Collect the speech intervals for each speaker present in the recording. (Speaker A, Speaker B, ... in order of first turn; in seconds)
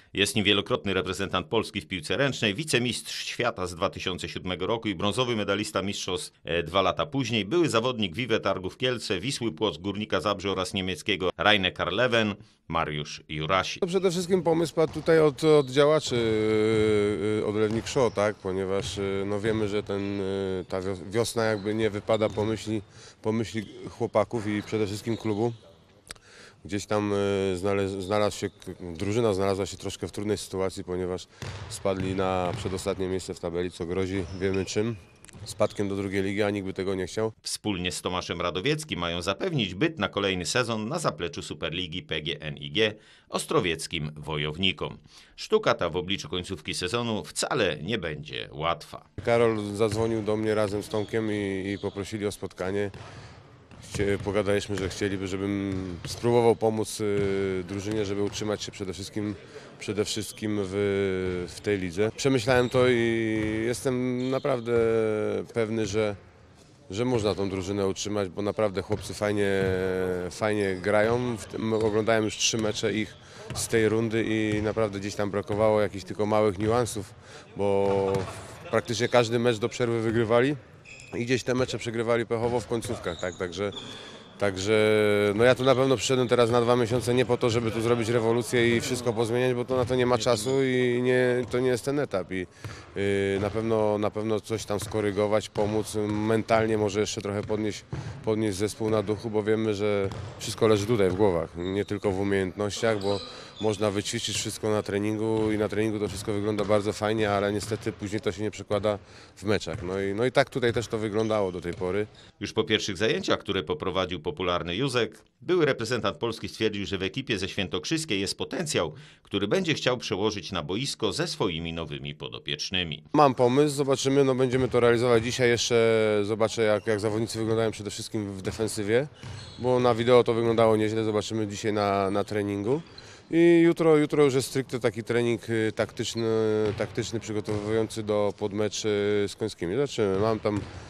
Speaker A: 0.1-13.8, 37.4-49.0, 112.4-123.0
Speaker B: 13.8-25.6, 26.6-37.3, 49.2-52.9, 53.8-66.2, 66.9-80.6, 81.1-83.7, 84.4-112.1, 123.1-140.6